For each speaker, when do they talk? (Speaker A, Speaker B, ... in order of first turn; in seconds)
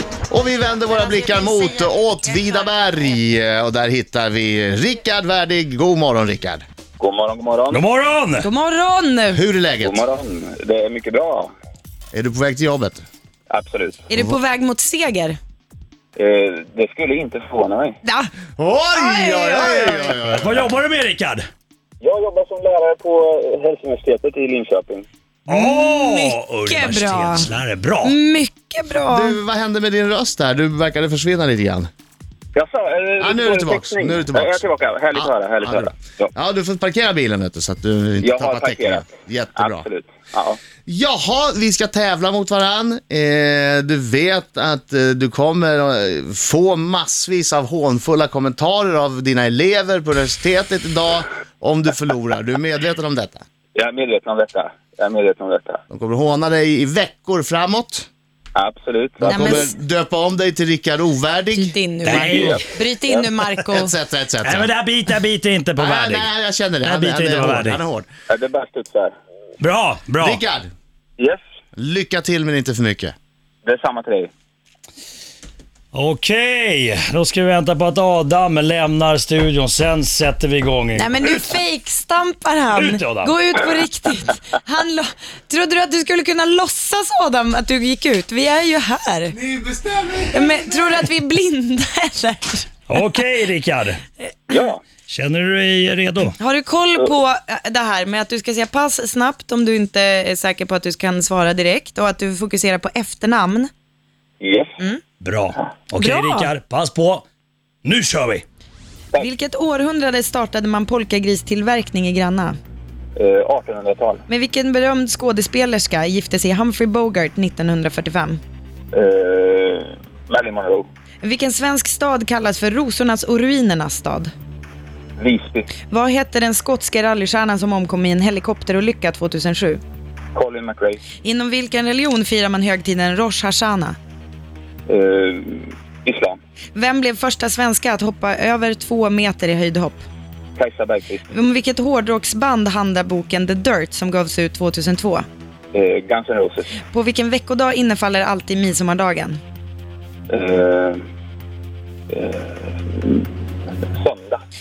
Speaker A: 0.3-6.6, 9.3-10.0, 12.1-13.1, 18.6-20.7, 29.0-31.9, 33.2-39.9, 40.8-53.4, 55.9-58.1, 59.2-62.6, 63.7-64.7, 65.8-68.1, 70.2-70.7, 71.8-73.1, 89.4-90.5
Speaker B: 1.1-2.4, 8.4-9.4, 14.1-15.4, 18.0-18.3, 18.9-20.1, 25.5-29.4, 59.2-59.7, 61.5-63.9, 80.9-89.4, 90.3-92.7, 96.4-103.7, 106.0-106.5, 109.2-112.6, 114.3-118.4, 121.2-124.3, 125.9-129.8, 131.2-134.0, 136.8-140.1, 141.3-145.2, 146.9-149.4
Speaker C: 7.0-7.8, 9.8-11.5, 13.5-14.0, 16.2-18.0, 22.0-25.1, 32.5-36.3, 38.2-40.6, 53.8-55.8, 58.5-59.6, 62.2-63.3, 68.3-69.1, 73.6-74.3, 94.5-94.8, 104.4-104.8, 113.2-114.2, 118.9-120.9, 125.2-125.7, 130.3-131.0, 134.9-136.4, 140.6-141.3, 145.7-146.7, 150.3-151.0, 152.1-154.4
Speaker D: 7.7-8.5, 20.1-21.4, 25.5-28.2, 62.0-62.6, 64.4-66.3, 66.8-67.8, 69.6-70.4, 75.9-81.5, 82.7-83.3, 92.9-94.0, 95.1-96.4, 105.2-107.2, 107.8-108.4